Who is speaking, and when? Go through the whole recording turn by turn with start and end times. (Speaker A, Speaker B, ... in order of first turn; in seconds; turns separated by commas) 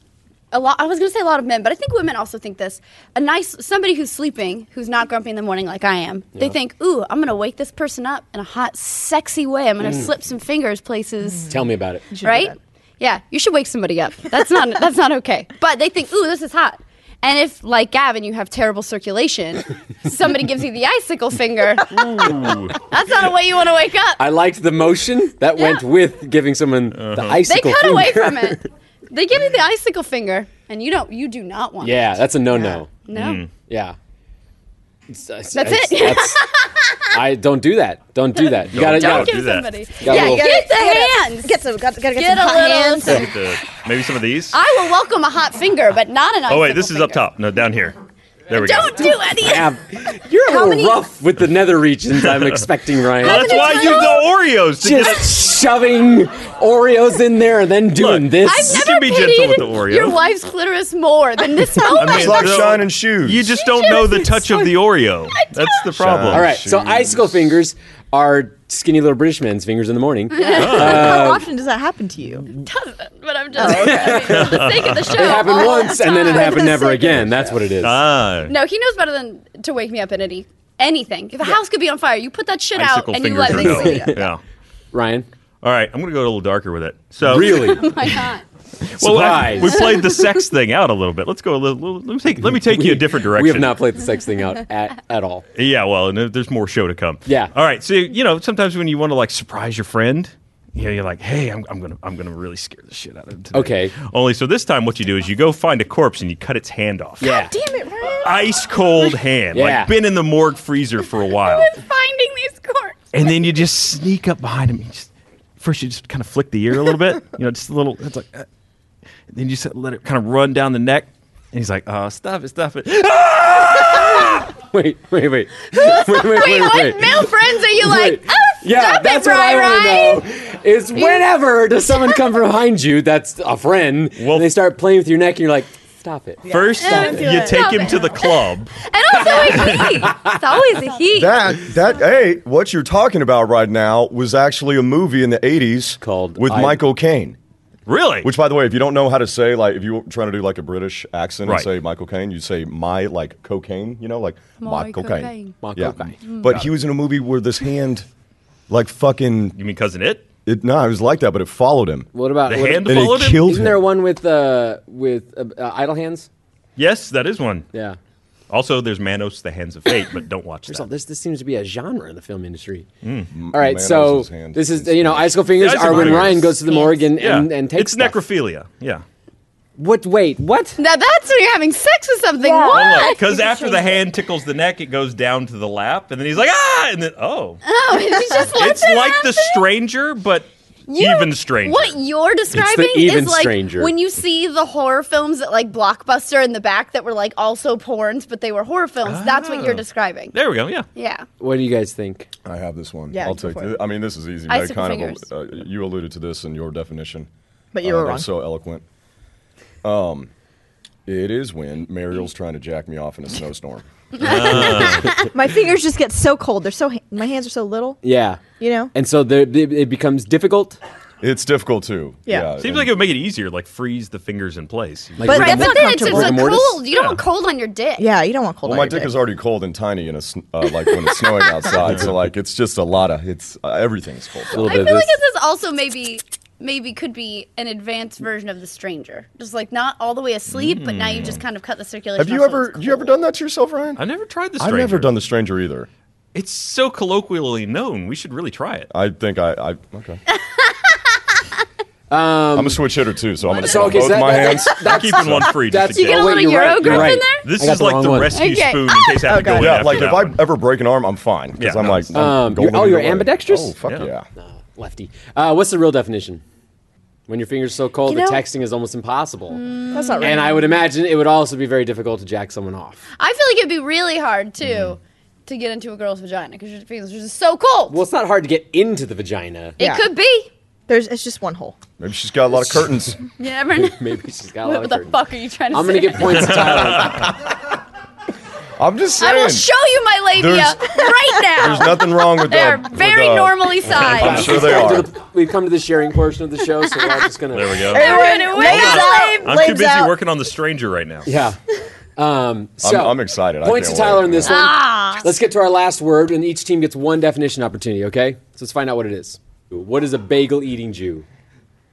Speaker A: 0.5-11.5, Speaker B: 9.8-10.1, Speaker B: 11.5-12.1, Speaker C: 12.1-12.6, Speaker A: 12.2-24.2, Speaker D: 21.9-22.8, Speaker B: 24.2-28.6, Speaker D: 26.9-27.4, Speaker A: 27.4-32.1, Speaker B: 31.8-32.9, Speaker C: 32.5-32.8, Speaker A: 33.0-33.4, Speaker D: 33.1-33.5, Speaker B: 33.7-34.0, Speaker B: 35.1-36.4, Speaker A: 35.5-37.0, Speaker B: 37.1-39.4, Speaker A: 38.4-41.5, Speaker D: 38.7-39.7, Speaker B: 40.0-40.5, Speaker C: 40.0-43.3, Speaker A: 42.1-43.6, Speaker D: 43.0-44.6, Speaker A: 44.5-47.2, Speaker D: 46.5-48.0, Speaker D: 48.5-49.2, Speaker A: 48.5-49.7, Speaker B: 49.2-53.9, Speaker C: 50.5-51.0, Speaker D: 52.1-55.4, Speaker A: 53.2-54.3, Speaker B: 54.8-58.8, Speaker D: 57.9-60.2, Speaker A: 58.4-62.5, Speaker C: 61.5-62.2, Speaker D: 61.9-66.6, Speaker E: 62.1-63.5, Speaker A: 63.8-64.2, Speaker A: 65.3-65.8, Speaker E: 65.9-67.2, Speaker B: 66.3-71.4, Speaker A: 70.4-70.8, Speaker C: 70.4-72.5, Speaker D: 70.4-71.3, Speaker A: 72.6-76.9, Speaker C: 73.5-74.4, Speaker B: 73.6-78.0, Speaker D: 74.2-75.4, Speaker C: 75.4-77.5, Speaker D: 77.8-78.5, Speaker A: 78.5-84.1, Speaker D: 82.7-84.4, Speaker C: 83.5-84.2, Speaker B: 83.7-84.3, Speaker B: 84.9-85.2, Speaker D: 85.6-88.2, Speaker B: 87.2-87.9, Speaker A: 87.4-88.4, Speaker D: 88.8-93.8, Speaker B: 89.0-89.9, Speaker A: 89.8-90.2, Speaker B: 92.3-95.4, Speaker D: 95.5-107.3, Speaker B: 97.2-97.5, Speaker B: 103.5-103.9, Speaker B: 107.2-107.5, Speaker C: 107.2-108.6, Speaker D: 108.2-111.7, Speaker B: 109.5-110.0, Speaker A: 111.3-113.1, Speaker D: 113.1-115.1, Speaker D: 115.6-118.5, Speaker D: 119.3-124.5, Speaker B: 123.8-137.1, Speaker A: 125.7-130.2, Speaker A: 130.9-131.3, Speaker A: 131.9-132.2, Speaker D: 134.2-134.5, Speaker C: 136.4-138.0, Speaker D: 136.5-140.1, Speaker A: 136.8-141.4, Speaker B: 139.2-140.4, Speaker E: 141.1-147.4, Speaker B: 146.0-146.8, Speaker D: 147.9-148.3, Speaker E: 148.2-158.1, Speaker A: 154.6-155.6, Speaker B: 155.6-156.2, Speaker A: 156.2-156.6, Speaker E: 158.7-159.6, Speaker D: 159.5-160.3, Speaker E: 160.4-162.1, Speaker B: 162.1-166.3, Speaker D: 162.4-163.5, Speaker E: 162.8-163.9, Speaker D: 166.8-167.7, Speaker B: 167.7-168.0, Speaker D: 168.5-170.9, Speaker B: 170.7-172.9, Speaker D: 173.0-173.3, Speaker E: 173.3-176.4, Speaker B: 173.5-178.2, Speaker D: 175.5-179.0, Speaker A: 176.5-177.0, Speaker B: 179.8-180.8, Speaker A: 180.8-183.2, Speaker C: 182.4-184.0, Speaker D: 182.7-187.6, Speaker A: 187.6-189.6, Speaker D: 188.4-192.0, Speaker A: 190.9-200.3, Speaker B: 192.5-193.9, Speaker D: 199.0-200.9, Speaker A: 200.9-201.2, Speaker B: 201.4-202.3, Speaker E: 202.4-207.3, Speaker C: 203.1-203.8, Speaker A: 204.5-205.2, Speaker C: 207.7-208.3, Speaker E: 207.8-208.8, Speaker E: 209.8-210.3, Speaker E: 211.1-213.8, Speaker D: 214.2-215.2, Speaker A: 214.3-215.1, Speaker C: 215.0-218.0, Speaker B: 218.0-218.4, Speaker C: 218.6-218.9, Speaker B: 218.9-220.8, Speaker E: 221.2-222.9, Speaker C: 222.3-222.5, Speaker D: 222.6-225.4, Speaker B: 225.2-226.8, Speaker C: 225.2-226.6, Speaker A: 225.3-228.1, Speaker D: 226.9-227.2, Speaker C: 228.0-229.1, Speaker E: 228.6-234.7, Speaker A: 231.0-231.8, Speaker B: 234.5-235.2, Speaker A: 234.6-243.1, Speaker D: 240.5-241.4, Speaker E: 242.2-244.0, Speaker D: 244.0-245.1, Speaker E: 244.6-245.9, Speaker D: 246.3-248.9, Speaker E: 248.9-250.2, Speaker B: 252.1-252.8, Speaker E: 252.5-255.3, Speaker B: 253.5-258.4, Speaker D: 254.7-260.4, Speaker A: 255.8-257.5, Speaker A: 258.3-259.3, Speaker C: 259.2-260.1, Speaker E: 259.4-264.2, Speaker D: 261.6-262.1, Speaker B: 262.1-263.7, Speaker D: 263.9-264.1, Speaker B: 264.4-266.4, Speaker B: 267.3-269.6, Speaker A: 268.1-268.4, Speaker A: 269.5-270.4, Speaker C: 269.9-270.7, Speaker B: 270.2-273.0, Speaker A: 273.2-278.0, Speaker D: 274.6-274.9, Speaker B: 277.9-279.8, Speaker A: 279.8-280.5, Speaker C: 279.8-280.1, Speaker C: 280.9-281.8, Speaker E: 282.0-283.2, Speaker B: 282.5-283.1, Speaker A: 283.4-286.9, Speaker B: 283.8-285.1, Speaker B: 285.7-287.3, Speaker D: 286.2-287.3, Speaker E: 287.1-287.6, Speaker E: 288.8-289.7, Speaker A: 289.2-294.9, Speaker E: 290.3-291.0, Speaker E: 291.5-295.1, Speaker D: 293.9-294.6, Speaker B: 294.0-298.2, Speaker D: 297.5-301.3, Speaker A: 297.9-299.5, Speaker C: 297.9-300.1, Speaker B: 301.2-301.6, Speaker B: 302.2-311.2, Speaker E: 302.8-304.6, Speaker A: 304.4-305.2